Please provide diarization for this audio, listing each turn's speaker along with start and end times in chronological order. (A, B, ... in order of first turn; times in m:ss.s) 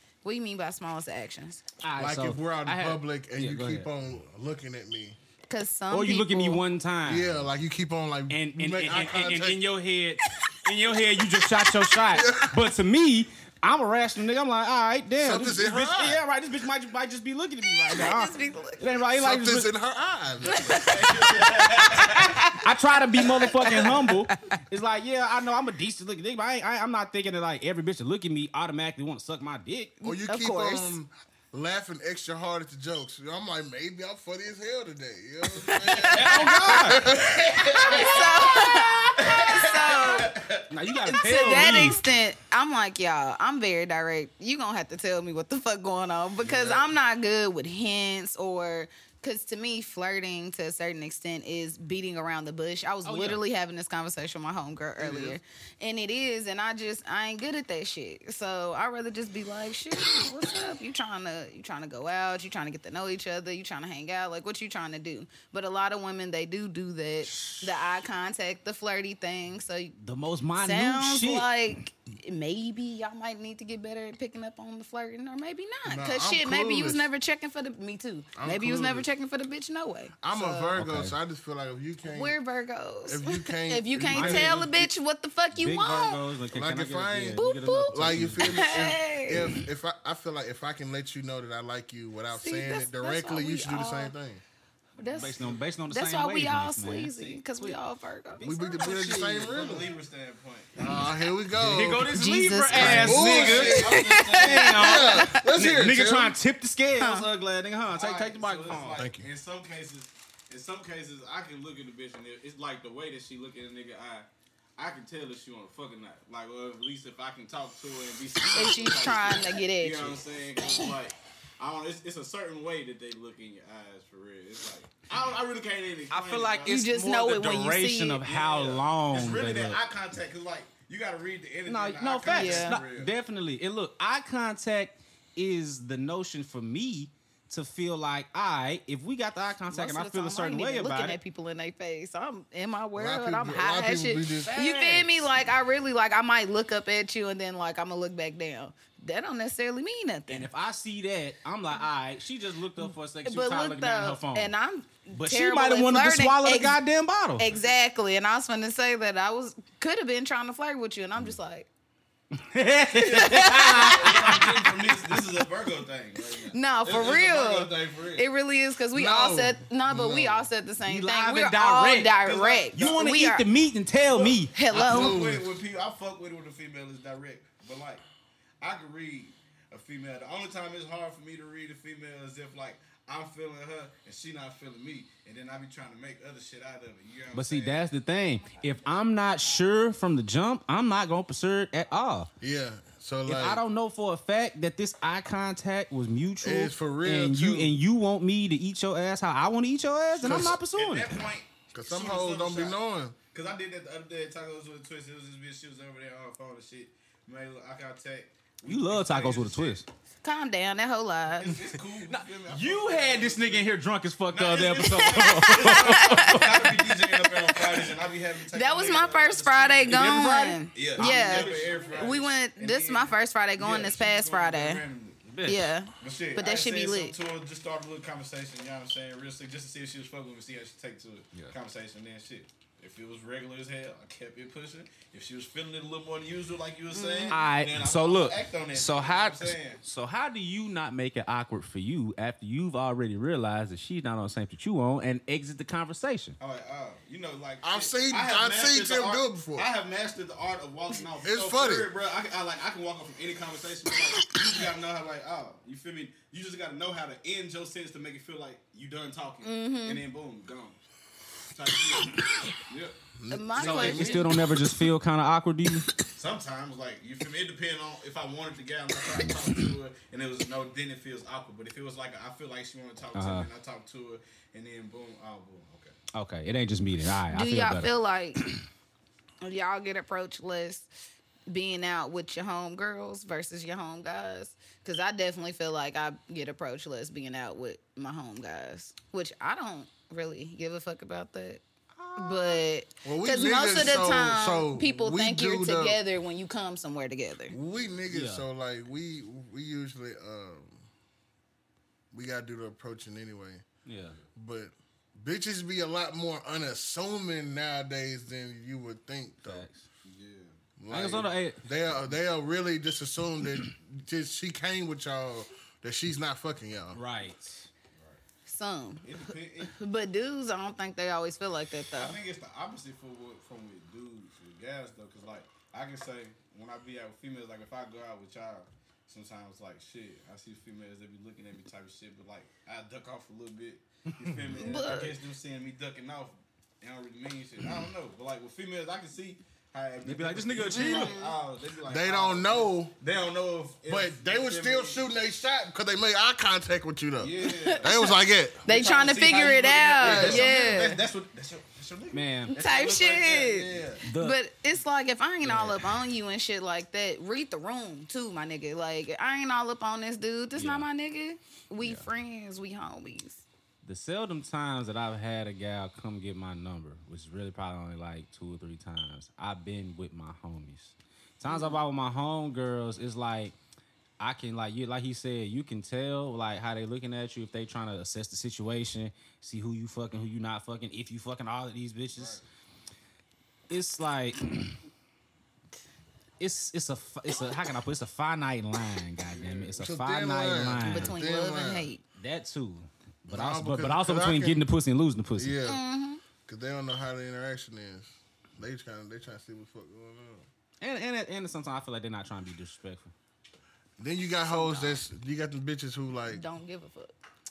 0:00.2-0:01.6 A
0:01.8-0:03.9 B
0:02.0-0:05.2 C
0:05.5-0:06.6 A
0:05.9-0:07.5 B
0:07.0-0:09.6 C
0:08.3-0:19.7 B
0:12.1-0:12.6 C
0:15.2-0:16.2 C
0:17.9-0:19.0 A
0:19.1-0:21.0 C
0:20.4-0:22.4 D
0:20.5-0:24.4 A
0:22.0-0:30.0 B
0:30.0-0:31.0 A
0:30.0-0:38.2 C
0:35.6-0:36.9 A
0:36.1-0:37.1 B
0:37.1-0:40.7 D
0:37.8-0:40.3 A
0:40.7-0:42.0 B
0:41.1-1:10.0 A
0:53.0-0:53.4 B
0:55.0-0:55.4 C
1:07.3-1:07.6 B
1:10.0-1:11.5 B
1:10.6-1:20.8 A
1:15.8-1:17.1 C
1:18.4-1:19.1 C
1:20.2-1:22.4 C
1:20.8-1:21.1 B
1:22.1-1:26.2 A
1:23.1-1:24.9 C
1:24.1-1:24.7 B
1:25.5-1:28.7 B
1:26.5-1:34.4 C
1:27.4-1:29.6 A
1:32.3-1:34.1 A
1:35.0-1:38.5 A
1:35.2-1:37.8 B
1:35.2-1:35.6 D
1:38.4-1:39.7 B
1:38.4-1:39.9 C
1:39.4-1:41.0 D
1:40.8-1:42.2 C
1:41.5-1:49.0 B
1:42.1-1:45.4 A
1:42.7-1:44.0 C
1:43.1-1:45.0 D
1:44.7-1:46.4 C
1:47.0-1:47.3 A
1:47.9-2:06.8 D
1:49.0-1:49.3 C
1:58.5-2:00.2 A
2:06.1-2:09.8 B
2:06.7-2:08.2 A
2:08.2-2:13.1 D
2:11.7-2:21.2 B
2:12.3-2:12.8 A
2:19.7-2:30.5 A
2:23.0-2:24.6 C
2:24.4-2:25.2 B
2:30.3-2:34.5 B
2:32.8-2:36.8 A
2:35.1-2:37.5 B
2:37.4-2:41.7 A
2:42.4-2:45.2 B
2:42.9-2:44.4 A
2:43.5-2:48.3 D
2:46.5-2:53.4 A
2:48.9-2:50.5 C
2:50.8-2:52.2 B
2:52.2-2:53.0 D
2:52.7-2:54.7 B
2:54.1-2:58.0 D
2:54.5-2:55.2 A
2:54.7-2:55.5 C
2:58.6-3:07.9 D
3:07.3-3:12.3 B
3:12.4-3:13.6 C
3:13.3-3:21.2 B
3:16.4-3:17.8 C
3:20.2-3:20.6 C
3:20.3-3:22.8 D
3:21.7-3:23.2 C
3:23.3-3:29.8 D
3:28.7-3:29.9 B
3:30.2-3:31.6 A
3:31.4-3:33.7 D
3:32.0-3:37.4 B
3:34.3-3:45.3 D
3:35.2-3:36.4 A
3:38.5-3:44.8 A
3:39.9-3:41.9 B
3:45.2-3:45.7 B
3:45.4-3:47.2 A
3:46.0-3:59.8 D
3:56.9-3:57.4 A
3:57.3-4:06.4 B
4:06.4-4:20.8 D
4:07.6-4:09.7 C
4:11.2-4:11.9 C
4:19.4-4:20.0 A
4:21.5-4:23.0 D
4:23.2-4:24.5 C
4:23.3-4:24.3 A
4:23.6-4:25.9 B
4:26.1-4:36.0 D
4:33.1-4:33.5 B
4:36.1-4:38.6 B
4:37.3-4:38.4 A
4:39.4-4:40.9 A
4:41.5-4:51.6 A
4:52.0-4:52.6 B
4:52.2-4:57.6 A
4:53.0-4:56.0 C
4:57.5-5:00.9 C
4:58.1-4:58.4 B
5:02.1-5:03.6 C
5:03.9-5:04.2 B
5:04.4-5:09.7 C
5:09.4-5:09.8 B
5:10.0-5:10.6 D
5:10.8-5:17.0 C
5:10.9-5:11.6 B
5:16.9-5:17.7 B
5:18.0-5:18.2 D
5:18.5-5:22.2 A
5:19.0-5:19.7 D
5:21.9-5:45.0 D
5:34.1-5:34.5 B
5:34.5-5:35.2 A
5:40.0-5:41.2 B
5:40.7-5:41.4 A
5:41.8-5:42.9 C
5:43.9-5:48.6 C
5:47.2-5:48.0 D
5:47.5-5:48.1 A
5:48.6-5:51.0 A
5:48.6-5:54.0 D
5:50.0-5:50.5 C
5:52.1-5:52.6 B
5:52.5-6:03.4 A
5:54.0-5:54.4 B
5:55.4-5:55.9 B
6:00.6-6:00.9 B
6:01.8-6:02.1 B
6:03.8-6:13.6 B
6:11.5-6:11.8 A
6:14.2-6:22.4 B
6:22.2-6:22.4 D
6:23.7-6:24.8 B
6:26.4-6:31.2 B
6:29.3-6:29.8 D
6:29.8-6:31.9 C
6:30.8-6:32.0 A
6:32.2-6:35.5 B
6:33.3-6:34.6 C
6:35.4-6:35.8 C
6:35.7-6:36.2 A
6:36.4-6:40.5 C
6:40.8-6:43.1 B
6:44.0-6:46.4 C
6:44.4-6:45.0 A
6:46.3-6:47.1 A